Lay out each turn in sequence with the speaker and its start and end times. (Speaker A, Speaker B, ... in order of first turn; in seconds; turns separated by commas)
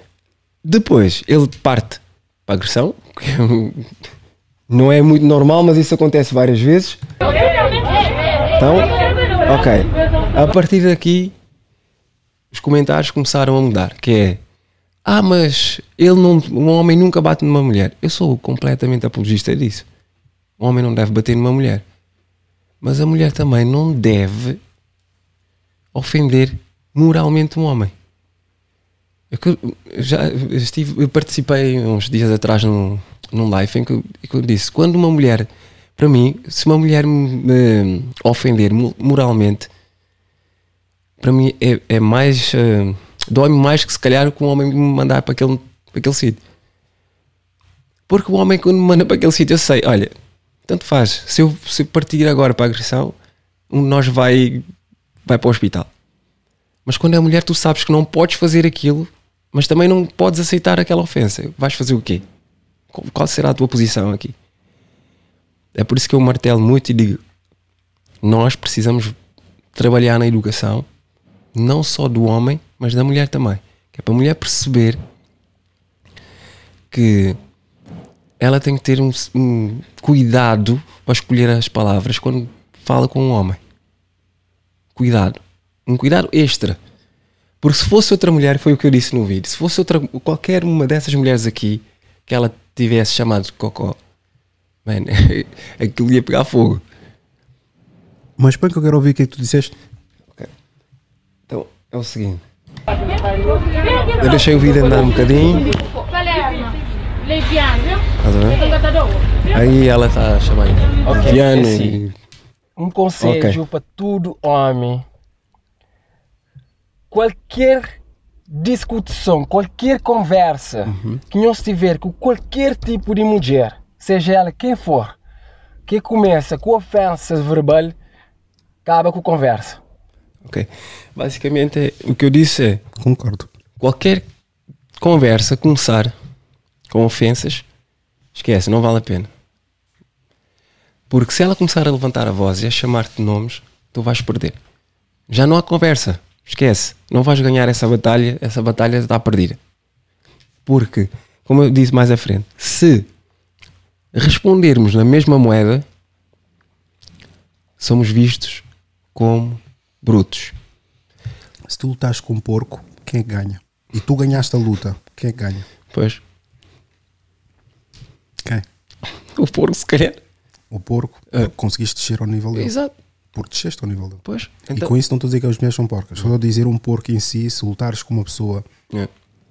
Speaker A: 0.6-3.9, Speaker A: 4.7-7.0, Speaker A: 8.6-8.9, Speaker A: 9.4-11.3, Speaker A: 12.5-14.4, Speaker A: 15.1-19.9, Speaker A: 20.6-21.8, Speaker A: 22.8-24.6, Speaker A: 25.9-27.9, Speaker A: 29.3-39.7, Speaker A: 41.2-46.4, Speaker A: 48.1-50.1, Speaker A: 50.7-53.1, Speaker A: 53.7-54.6, Speaker A: 55.2-55.9, Speaker A: 56.9-62.2, Speaker A: 62.9-64.3, Speaker A: 65.7-67.2, Speaker A: 68.2-69.2, Speaker A: 69.7-70.9, Speaker A: 71.5-75.0, Speaker A: 76.9-77.4, Speaker A: 78.4-83.6, Speaker A: 85.0-86.8, Speaker A: 87.6-94.0, Speaker A: 94.8-96.8, Speaker B: 98.4-99.7, Speaker A: 101.5-102.4, Speaker A: 104.2-105.7, Speaker A: 108.2-108.6, Speaker A: 109.5-112.1, Speaker C: 111.0-112.0, Speaker C: 112.8-115.0, Speaker A: 113.2-113.6, Speaker C: 117.1-117.9, Speaker C: 118.5-125.2, Speaker C: 125.9-127.9, Speaker C: 128.8-129.8, Speaker A: 130.4-132.8, Speaker B: 133.0-133.5, Speaker A: 133.8-134.2, Speaker A: 135.0-136.1, Speaker A: 136.9-137.7, Speaker A: 138.3-139.3, Speaker A: 141.1-144.6, Speaker A: 145.3-149.6, Speaker A: 150.7-153.1, Speaker A: 154.1-155.8, Speaker A: 157.8-160.5, Speaker B: 161.7-165.7, Speaker A: 165.9-166.2, Speaker A: 169.2-170.2, Speaker B: 170.7-172.7, Speaker A: 172.5-172.9, Speaker B: 173.3-174.2, Speaker A: 174.2-174.9, Speaker B: 174.7-178.6